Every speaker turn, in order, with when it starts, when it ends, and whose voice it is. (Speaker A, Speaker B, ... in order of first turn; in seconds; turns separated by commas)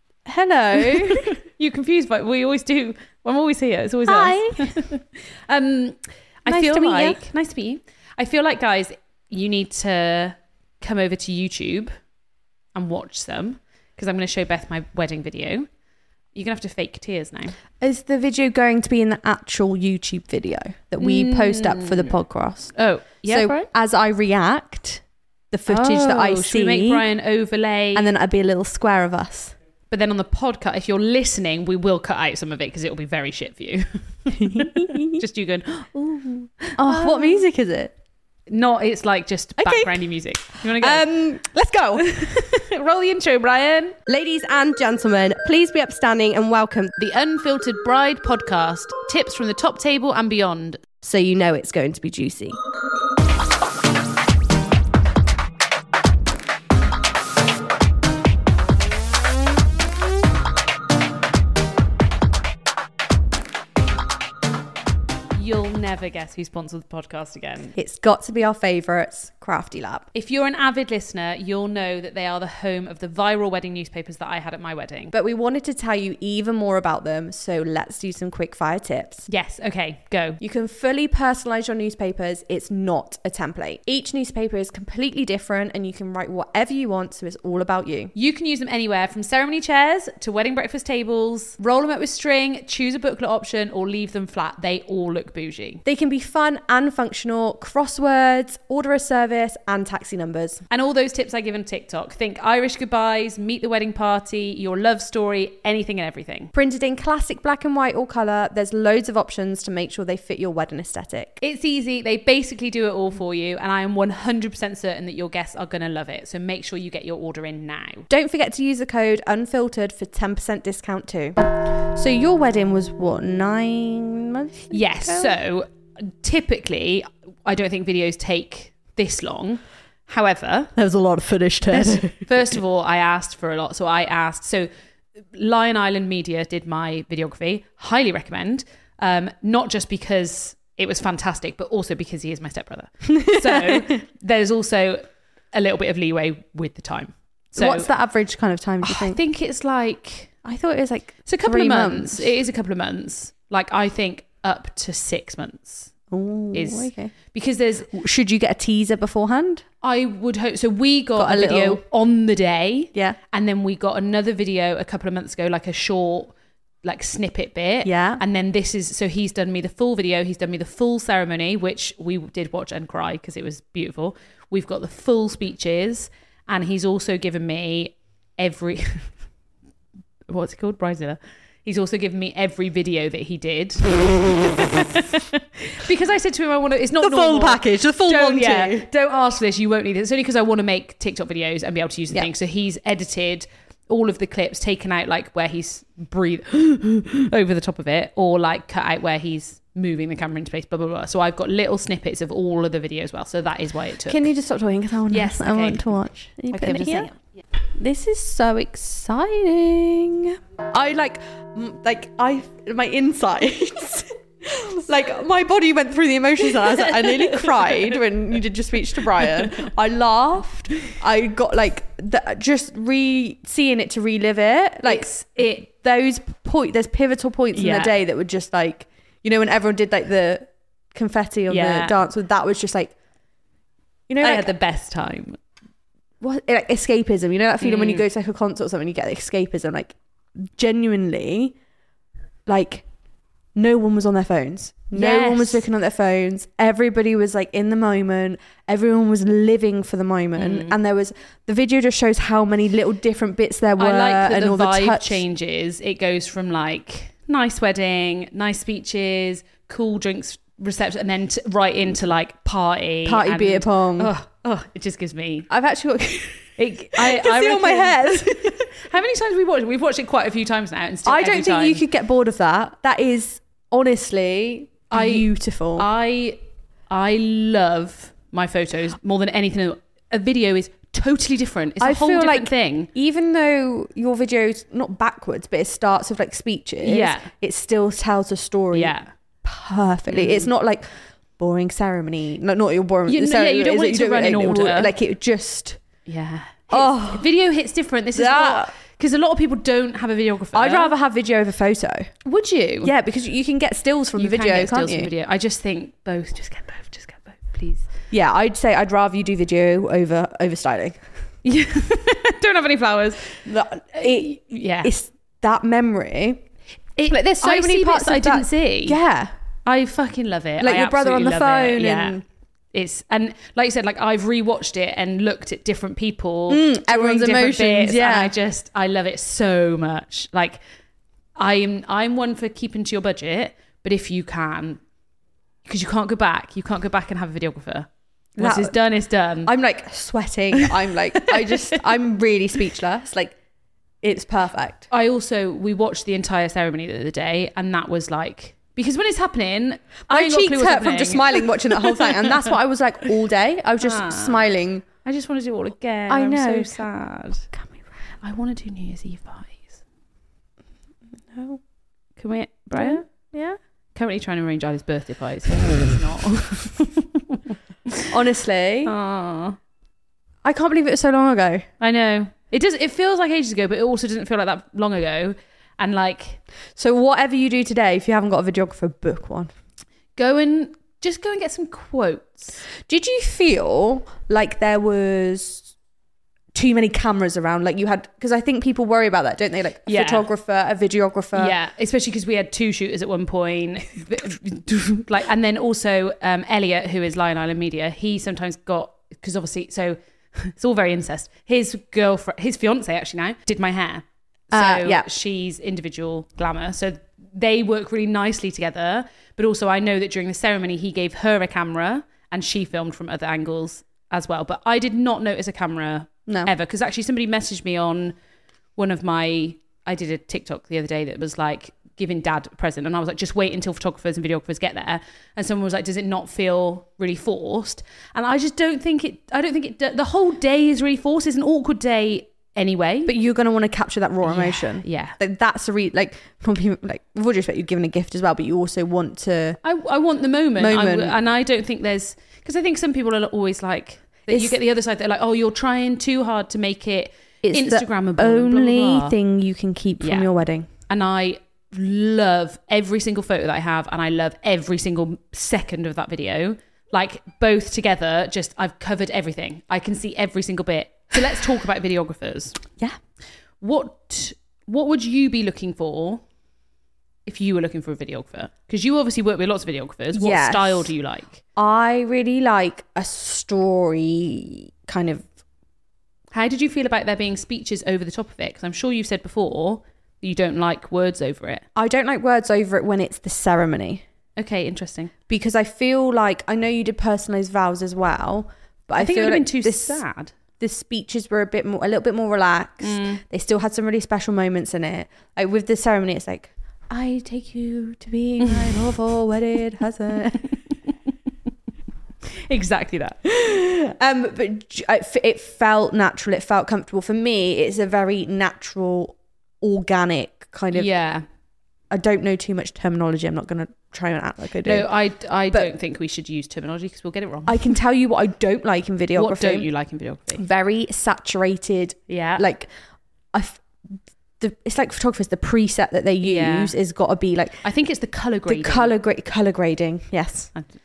Speaker A: 0.2-1.3, Speaker B: 0.7-11.9, Speaker A: 4.0-4.8, Speaker A: 6.5-7.2, Speaker B: 12.7-15.7, Speaker B: 16.3-17.6, Speaker A: 17.8-22.7, Speaker B: 21.0-22.1, Speaker B: 22.7-23.7, Speaker A: 23.2-27.0, Speaker B: 25.7-28.1, Speaker A: 27.9-29.5, Speaker B: 29.9-37.4, Speaker A: 34.3-35.2, Speaker A: 36.8-37.9, Speaker B: 38.5-41.1, Speaker A: 39.6-40.0, Speaker A: 40.6-42.0, Speaker B: 42.0-44.0, Speaker A: 44.1-46.9, Speaker B: 47.0-50.8, Speaker A: 51.0-52.6, Speaker B: 65.3-67.7, Speaker A: 67.7-70.0, Speaker B: 70.1-75.1, Speaker A: 75.1-79.3, Speaker B: 79.3-80.4, Speaker A: 80.4-88.1, Speaker B: 88.1-95.8, Speaker A: 95.8-100.6, Speaker B: 100.7-106.5, Speaker A: 106.5-111.4, Speaker B: 111.4-118.1, Speaker A: 118.1-125.3, Speaker B: 124.7-130.7, Speaker A: 130.7-132.2, Speaker B: 131.7-134.7, Speaker B: 135.3-147.9, Speaker A: 143.2-143.9, Speaker A: 147.5-149.2, Speaker B: 148.8-150.3, Speaker A: 150.4-152.3, Speaker B: 151.2-155.9, Speaker A: 156.1-157.1, Speaker B: 156.5-157.9, Speaker A: 157.9-159.6, Speaker B: 159.8-179.1, Speaker A: 161.2-161.8, Speaker A: 167.8-168.2, Speaker B: 180.3-185.0, Speaker B: 185.7-204.3, Speaker A: 187.0-188.9, Speaker A: 204.1-207.1, Speaker B: 205.1-205.9, Speaker B: 206.5-207.1, Speaker A: 207.8-232.9, Speaker B: 224.8-225.6, Speaker B: 227.5-227.9, Speaker B: 231.5-232.0, Speaker A: 234.1-234.5, Speaker B: 234.2-235.4, Speaker A: 236.2-241.5, Speaker B: 237.6-238.0, Speaker A: 242.4-242.8, Speaker A: 243.5-255.2, Speaker B: 244.9-245.7, Speaker B: 250.3-250.7, Speaker B: 253.8-265.5, Speaker A: 263.0-264.1, Speaker A: 265.5-268.7, Speaker B: 266.6-271.8, Speaker A: 271.1-275.9, Speaker B: 274.9-276.4, Speaker B: 276.9-282.9, Speaker A: 281.8-288.9, Speaker B: 286.8-287.3, Speaker B: 288.7-289.1, Speaker A: 289.4-295.8, Speaker B: 290.1-290.5, Speaker B: 293.1-294.9, Speaker B: 296.1-300.9, Speaker A: 296.7-297.3, Speaker A: 298.1-298.7, Speaker A: 300.5-302.1, Speaker B: 302.2-302.9, Speaker A: 302.8-305.1, Speaker B: 304.2-307.9, Speaker A: 308.1-311.0, Speaker B: 311.4-313.4, Speaker A: 313.4-316.4, Speaker B: 313.9-314.9, Speaker B: 316.9-319.0, Speaker A: 317.1-319.3, Speaker B: 319.6-322.2, Speaker A: 320.6-322.2, Speaker B: 322.7-330.6, Speaker A: 326.5-328.3, Speaker B: 331.4-334.8, Speaker B: 335.6-339.5, Speaker A: 338.4-338.8, Speaker A: 339.4-343.4, Speaker B: 341.2-341.8, Speaker A: 344.0-344.9, Speaker B: 344.9-352.5, Speaker A: 350.1-354.8, Speaker B: 353.8-354.4, Speaker B: 355.0-357.5, Speaker A: 356.1-356.8, Speaker A: 357.5-357.8, Speaker B: 358.2-359.8, Speaker A: 361.3-361.6, Speaker B: 362.2-363.0, Speaker A: 362.8-363.6, Speaker B: 363.9-368.1, Speaker A: 368.1-368.9, Speaker B: 368.8-369.6, Speaker A: 370.4-371.6, Speaker B: 371.8-376.4, Speaker A: 376.8-379.5, Speaker B: 380.1-382.6, Speaker A: 382.8-385.7, Speaker A: 386.5-391.5, Speaker B: 389.9-390.3, Speaker B: 391.3-418.1, Speaker A: 404.5-405.1, Speaker B: 418.8-433.1, Speaker A: 433.1-439.6, Speaker B: 434.2-435.2, Speaker B: 439.6-449.1, Speaker A: 440.6-441.1, Speaker A: 444.3-444.5, Speaker A: 447.4-450.7, Speaker B: 450.0-450.3, Speaker B: 450.9-462.6, Speaker B: 463.6-466.2, Speaker B: 467.2-471.4, Speaker A: 470.1-470.9, Speaker A: 471.6-475.2, Speaker B: 476.3-481.6, Speaker A: 481.8-484.0, Speaker B: 484.4-485.1, Speaker A: 485.3-490.0, Speaker B: 488.9-490.3, Speaker A: 490.6-500.5, Speaker B: 492.8-493.2, Speaker B: 498.4-498.8, Speaker B: 502.3-503.2, Speaker A: 503.2-510.9, Speaker B: 510.7-511.2, Speaker A: 511.9-514.9, Speaker B: 514.6-517.7, Speaker A: 517.5-519.7, Speaker B: 519.1-520.4, Speaker A: 520.4-522.7, Speaker B: 522.1-522.4, Speaker A: 523.3-523.6, Speaker A: 524.4-527.5, Speaker B: 526.2-526.7, Speaker B: 527.6-528.9, Speaker A: 528.5-530.5